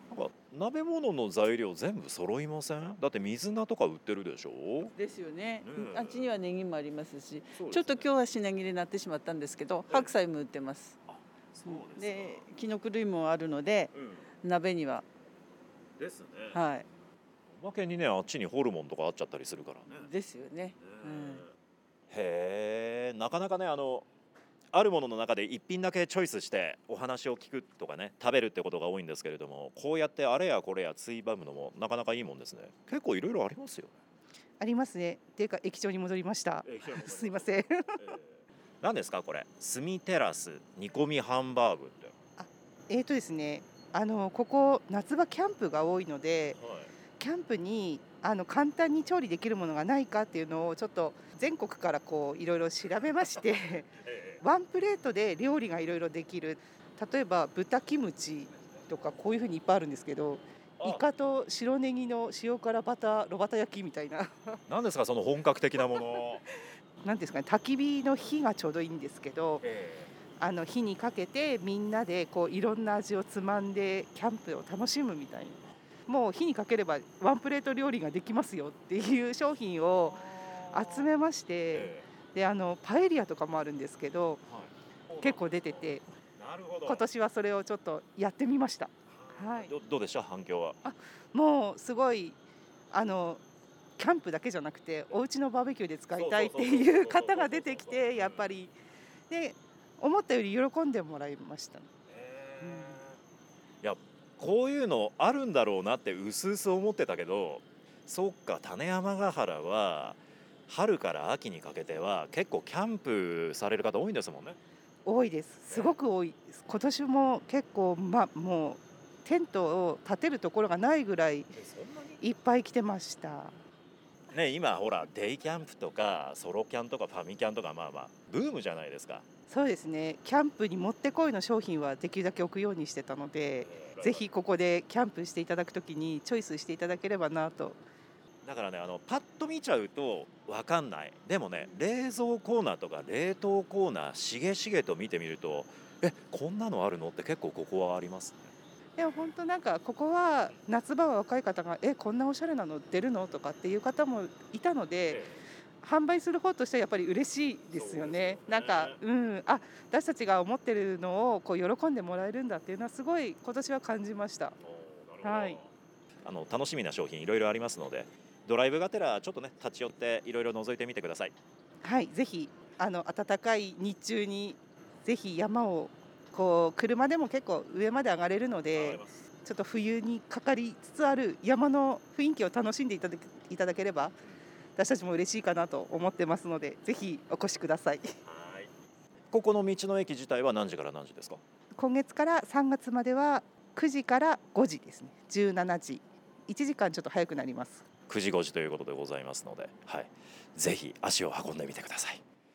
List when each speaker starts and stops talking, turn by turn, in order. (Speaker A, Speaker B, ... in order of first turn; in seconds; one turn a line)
Speaker A: 0.1-4.9
Speaker B: 4.9-11.0
Speaker A: 5.6-6.3
Speaker A: 7.5-8.1
Speaker A: 11.1-12.5
Speaker B: 11.7-15.1
Speaker A: 13.9-14.3
Speaker A: 16.0-16.6
Speaker B: 16.5-16.9
Speaker A: 17.5-20.1
Speaker B: 19.9-21.4
Speaker A: 20.8-21.5
Speaker A: 22.1-24.1
Speaker A: 24.7-33.9
Speaker C: 34.6-38.0
Speaker A: 36.6-42.1
Speaker C: 42.4-46.6
Speaker A: 46.6-46.9
Speaker C: 47.2-64.6
Speaker A: 54.0-54.4
Speaker A: 60.8-61.0
Speaker A: 64.7-66.5
Speaker C: 67.0-69.6
Speaker A: 69.6-70.1
Speaker C: 70.4-84.4
Speaker A: 80.0-81.1
Speaker A: 81.7-82.1
Speaker A: 84.4-87.1
Speaker C: 85.2-86.0
Speaker C: 86.8-89.7
Speaker A: 89.1-90.8
Speaker C: 90.8-92.4
Speaker C: 92.9-93.4
Speaker C: 94.0-98.7
Speaker A: 96.2-98.5
Speaker C: 99.3-101.9
Speaker A: 102.1-103.2
Speaker C: 102.6-103.0
Speaker A: 103.8-114.6
Speaker C: 115.0-121.6
Speaker A: 115.7-116.0
Speaker A: 121.5-122.2
Speaker C: 122.2-123.5
Speaker A: 124.3-129.2
Speaker C: 129.5-137.8
Speaker A: 133.6-134.2
Speaker A: 138.4-148.5
Speaker C: 149.0-155.3
Speaker A: 155.1-155.4
Speaker C: 155.8-164.6
Speaker A: 157.7-159.0
Speaker A: 164.6-165.7
Speaker C: 165.2-165.6
Speaker A: 166.2-171.3
Speaker C: 171.8-184.2
Speaker A: 178.7-179.2
Speaker C: 184.8-188.1
Speaker A: 188.2-188.7
Speaker A: 189.3-191.4
Speaker C: 191.8-197.9
Speaker A: 198.1-202.2